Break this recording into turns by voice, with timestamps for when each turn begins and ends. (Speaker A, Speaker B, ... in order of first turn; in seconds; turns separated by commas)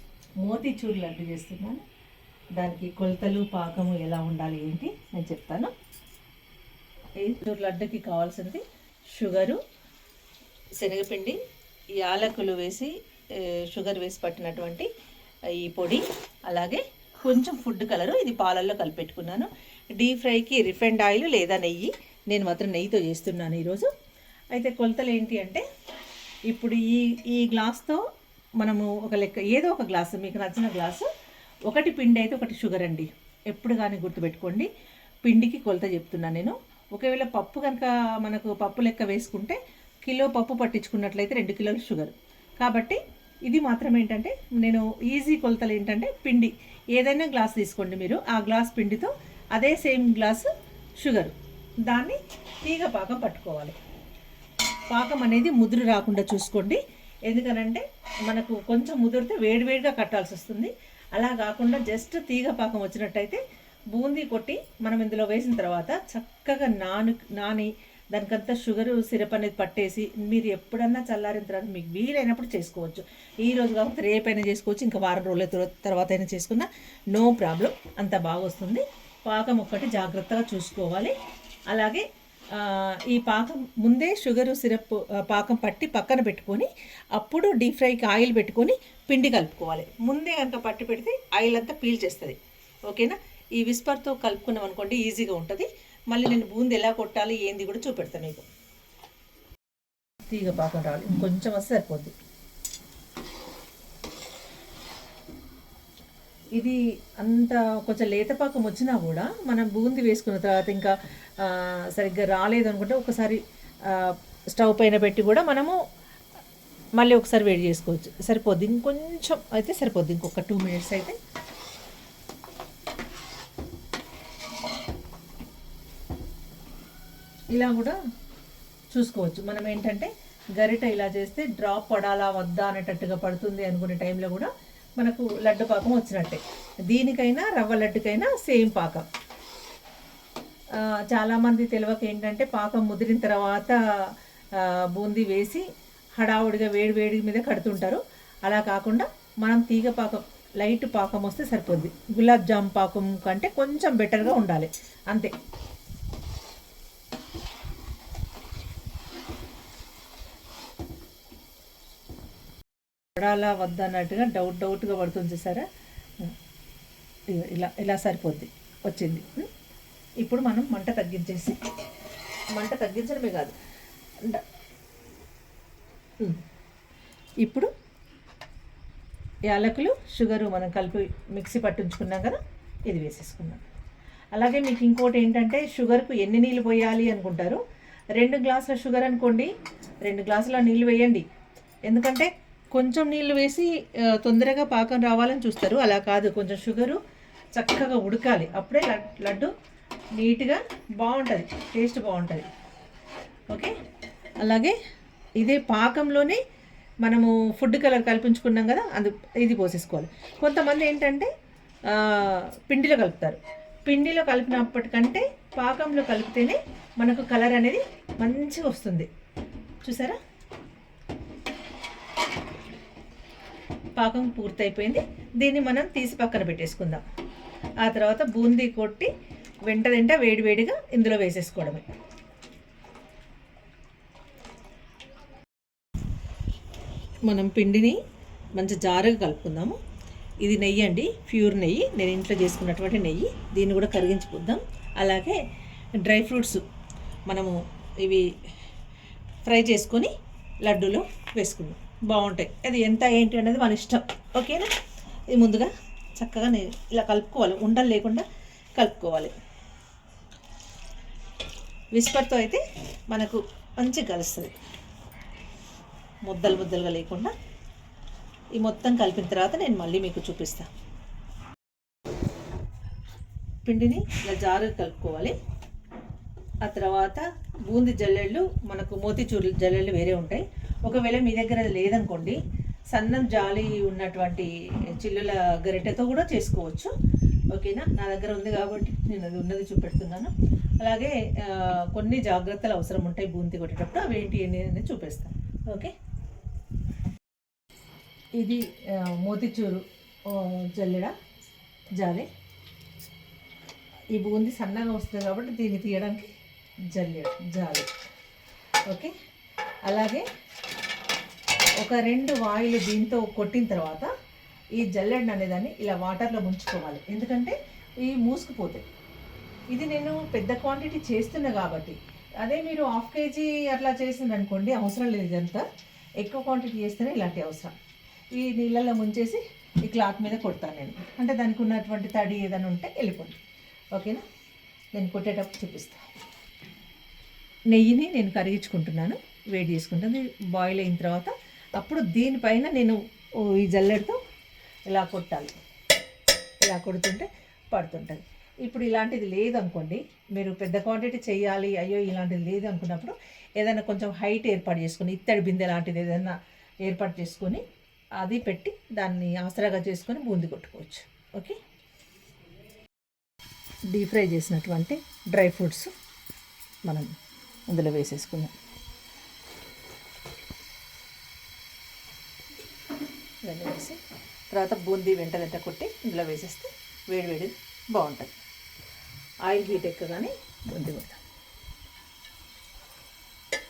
Speaker A: 0.4-1.8, Speaker A: 2.6-5.7, Speaker A: 7.2-9.6, Speaker A: 10.8-11.4, Speaker A: 12.0-14.9, Speaker A: 15.5-23.9, Speaker A: 24.5-25.6, Speaker A: 26.5-28.0, Speaker A: 28.6-31.1, Speaker A: 31.7-34.7, Speaker A: 35.2-53.8, Speaker A: 54.9-63.4, Speaker A: 63.9-81.1, Speaker A: 81.7-98.5, Speaker A: 100.3-102.1, Speaker A: 106.5-115.8, Speaker A: 117.0-121.2, Speaker A: 127.5-128.0, Speaker A: 128.9-139.1, Speaker A: 140.8-143.8, Speaker A: 144.5-145.6, Speaker A: 146.2-155.3, Speaker A: 163.1-165.7, Speaker A: 167.3-169.5, Speaker A: 170.2-171.6, Speaker A: 172.6-173.5, Speaker A: 177.4-177.7, Speaker A: 179.5-183.6, Speaker A: 184.3-187.6, Speaker A: 188.2-189.5, Speaker A: 190.0-191.2, Speaker A: 191.8-197.0, Speaker A: 197.5-199.5, Speaker A: 200.2-202.5, Speaker A: 203.5-203.7, Speaker A: 204.4-204.8, Speaker A: 205.4-206.4, Speaker A: 207.0-211.3, Speaker A: 211.9-219.1, Speaker A: 219.8-220.2, Speaker A: 223.9-227.0, Speaker A: 227.8-229.1, Speaker A: 229.7-231.9, Speaker A: 237.2-238.0, Speaker A: 238.6-239.8, Speaker A: 240.4-245.4, Speaker A: 246.0-246.6, Speaker A: 247.3-248.3, Speaker A: 249.4-250.1, Speaker A: 250.6-254.7, Speaker A: 255.3-259.3, Speaker A: 261.9-264.6, Speaker A: 266.2-267.3, Speaker A: 268.6-270.7, Speaker A: 273.6-275.4, Speaker A: 276.6-282.4, Speaker A: 282.9-286.9, Speaker A: 287.5-295.9, Speaker A: 298.4-301.1, Speaker A: 302.0-302.3, Speaker A: 304.1-306.3, Speaker A: 306.9-307.9, Speaker A: 308.9-309.1, Speaker A: 309.9-310.3, Speaker A: 311.8-314.1, Speaker A: 314.8-318.8, Speaker A: 319.7-325.6, Speaker A: 326.2-327.7, Speaker A: 328.3-333.4, Speaker A: 333.9-334.2, Speaker A: 334.9-336.1, Speaker A: 337.7-344.2, Speaker A: 344.9-345.5, Speaker A: 346.6-357.6, Speaker A: 358.2-361.6, Speaker A: 363.9-365.9, Speaker A: 367.7-368.5, Speaker A: 373.4-374.0, Speaker A: 374.5-378.3, Speaker A: 379.4-381.2